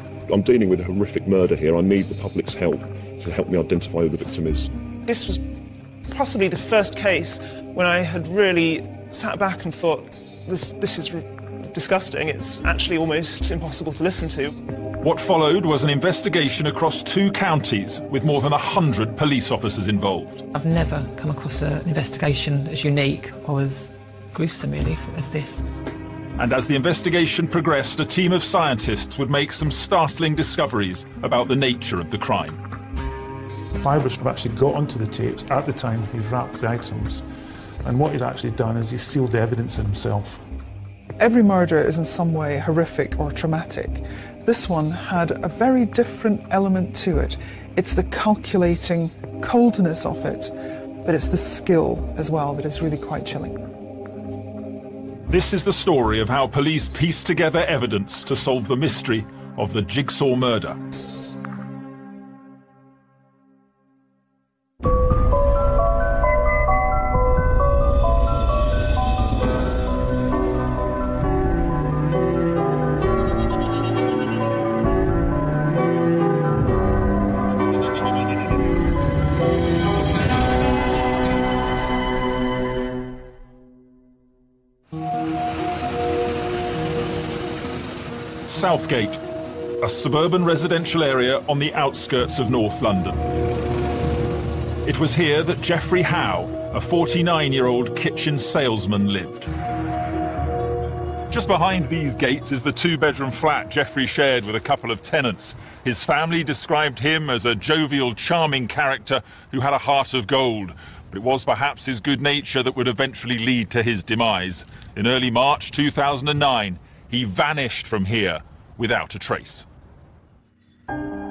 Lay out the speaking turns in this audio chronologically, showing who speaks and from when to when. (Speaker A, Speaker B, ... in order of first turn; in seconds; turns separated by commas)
Speaker A: 0.3-4.7, Speaker B: 5.0-5.5, Speaker B: 6.1-14.6, Speaker C: 15.0-20.4, Speaker D: 20.5-25.6, Speaker C: 26.4-32.6, Speaker E: 33.8-37.2, Speaker E: 37.8-40.4, Speaker F: 41.2-50.5, Speaker F: 51.0-53.6, Speaker C: 55.3-60.8, Speaker C: 88.5-89.2, Speaker C: 89.8-93.2, Speaker C: 94.8-99.5, Speaker C: 101.3-119.7